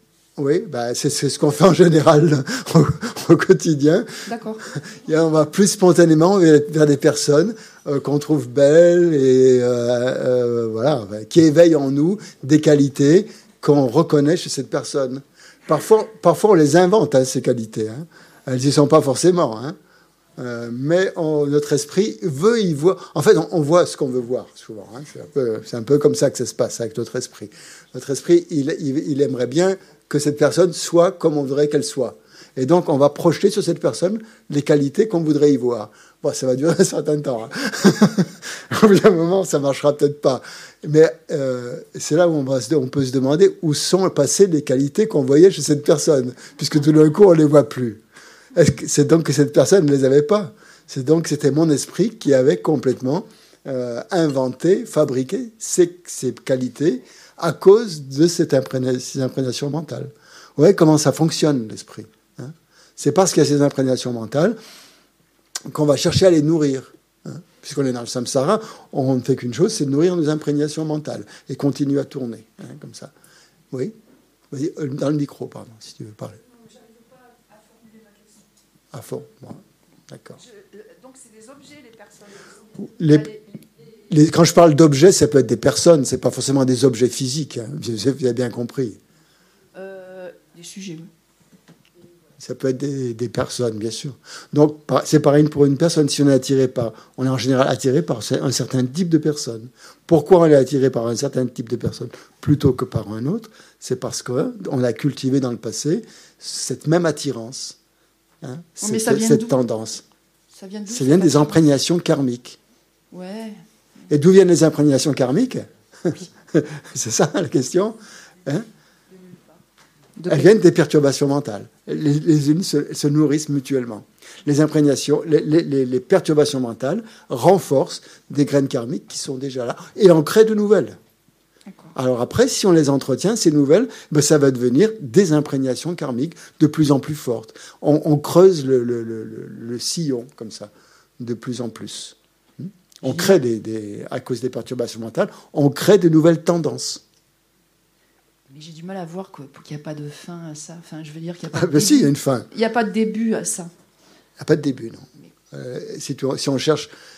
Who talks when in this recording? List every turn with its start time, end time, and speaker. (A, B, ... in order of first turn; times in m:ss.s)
0:00.4-0:04.1 A
0:04.3-0:04.6 B
0:04.8-0:19.8 A
0:20.4-0:48.0 A
0:48.5-1:04.6 A
1:05.7-1:13.1 A
1:14.5-1:16.4 A
1:16.8-1:18.4 B
1:18.9-1:20.4 A
1:20.4-1:23.6 B
1:22.8-1:23.3 A
1:24.1-1:29.0 A
1:29.8-1:31.1 B
1:32.4-1:47.8 A
1:48.4-1:50.0 A
1:48.8-1:49.6 B
1:50.5-1:51.7 B
1:50.9-1:52.6 A
1:53.1-1:53.6 B
1:54.1-1:58.7 A
1:59.2-1:59.4 B
2:00.2-2:00.5 B
2:00.3-2:11.0 A
2:12.0-2:27.0 A
2:23.0-2:23.4 B
2:28.5-2:33.7 B
2:31.5-2:32.5 A
2:34.4-2:36.9 A